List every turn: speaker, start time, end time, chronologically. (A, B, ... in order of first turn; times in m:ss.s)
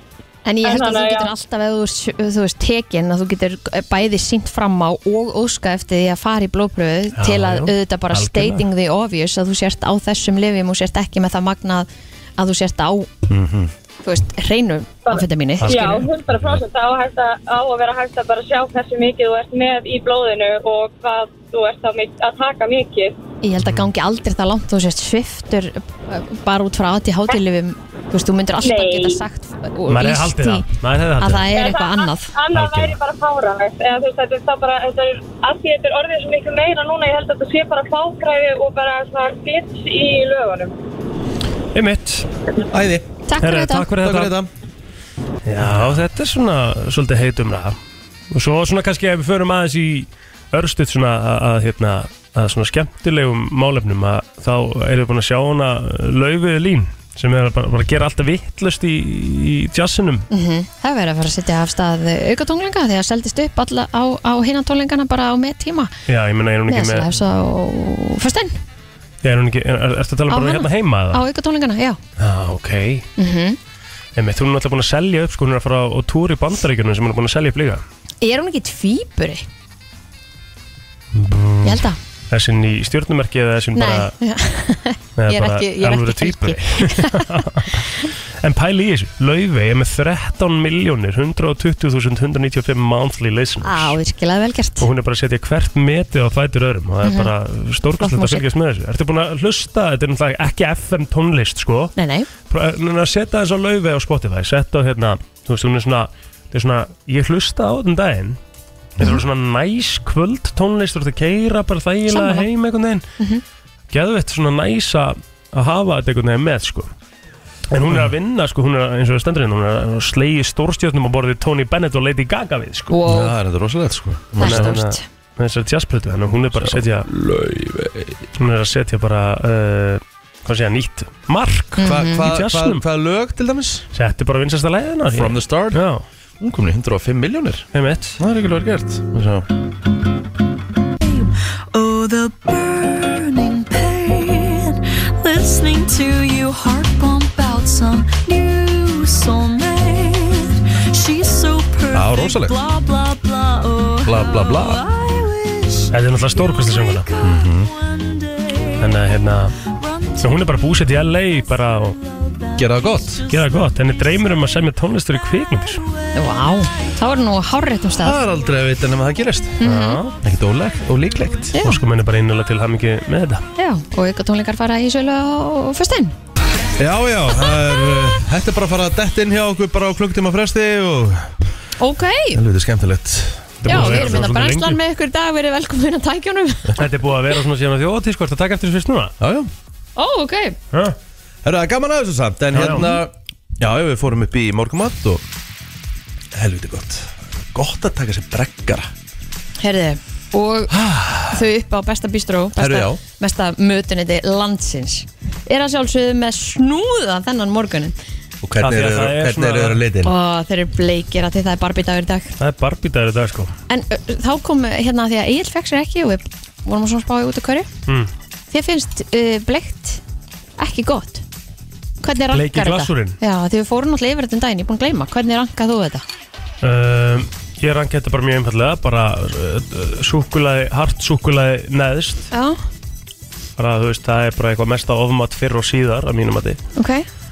0:00.5-0:13.1 A
0:00.6-0:01.3 B
0:07.2-0:08.6 C
0:13.3-0:13.7 D
0:14.0-0:16.0 A
0:15.1-0:23.2 B
0:15.6-0:16.1 C
0:23.4-0:30.7 A
0:23.6-0:23.9 C
0:28.6-0:29.2 B
0:29.9-0:31.5 C
0:31.2-0:32.3 A
0:31.5-0:40.8 B
0:32.6-0:32.9 D
0:41.7-0:42.3 C
0:42.7-0:43.1 D
0:43.3-0:43.9 A
0:43.4-0:44.4 C
0:44.0-0:44.5 D
0:45.5-0:47.8 C
0:48.3-1:00.3 C
1:00.3-1:05.9 A
1:06.1-1:07.1 C
1:06.7-1:08.6 A
1:09.2-1:11.2 C
1:10.3-1:12.0 A
1:12.2-1:13.1 C
1:13.2-1:13.6 A
1:14.2-1:17.8 C
1:18.2-1:19.5 A
1:21.2-1:24.1 C
1:21.6-1:22.0 A
1:23.8-1:27.4 A
1:25.2-1:34.0 C
1:33.6-1:34.9 A
1:34.8-1:42.0 C
1:37.0-1:37.3 A
1:38.0-1:38.4 A
1:42.0-1:42.3 A
1:42.5-1:48.4 C
1:49.0-1:49.2 D
1:49.0-1:53.0 C
1:52.1-1:52.5 A
1:53.9-1:56.9 C
1:57.7-2:03.0 C
2:02.9-2:03.4 A
2:03.1-2:04.8 D
2:04.4-2:05.0 A
2:04.4-2:07.1 C
2:06.5-2:08.2 D
2:08.4-2:12.8 C
2:11.8-2:12.2 A
2:11.8-2:13.9 D
2:13.9-2:16.0 C
2:15.1-2:15.8 D
2:16.4-2:17.7 D
2:17.7-2:18.2 C
2:18.2-2:19.5 D
2:21.0-2:44.6 E
2:31.9-2:32.6 D
2:34.0-2:34.8 D
2:35.9-2:37.1 C
2:37.2-2:37.7 D
2:38.8-2:39.6 C
2:40.2-2:42.0 C
2:42.6-2:43.2 D
2:43.3-2:45.8 C
2:45.2-2:48.6 E
2:46.1-2:48.2 A
2:48.0-2:49.6 D
2:49.6-2:50.0 A
2:49.6-2:50.2 C
2:50.2-2:51.6 D
2:51.0-2:51.5 E
2:51.5-2:51.8 A
2:51.6-2:53.4 C
2:53.6-2:56.2 A
2:56.8-3:01.3 D
3:01.8-3:02.4 A
3:02.3-3:04.3 D
3:03.6-3:04.8 C
3:03.7-3:06.9 A
3:06.8-3:09.1 C
3:09.2-3:09.5 D
3:10.0-3:10.6 A
3:11.4-3:15.2 D
3:12.5-3:12.9 C
3:12.6-3:13.0 A
3:16.3-3:18.9 D
3:19.6-3:20.8 A
3:20.7-3:21.5 D
3:21.3-3:27.9 A
3:22.6-3:23.0 D
3:28.4-3:30.1 D
3:28.6-3:29.8 C
3:30.0-3:32.3 A
3:32.4-3:33.5 C
3:33.7-3:37.7 A
3:38.5-3:40.0 A
3:40.6-3:41.2 A
3:42.0-3:46.0 A
3:42.3-3:43.2 C
3:46.6-3:52.3 C
3:52.3-3:52.6 A
3:53.6-3:56.6 C
3:56.8-3:57.1 A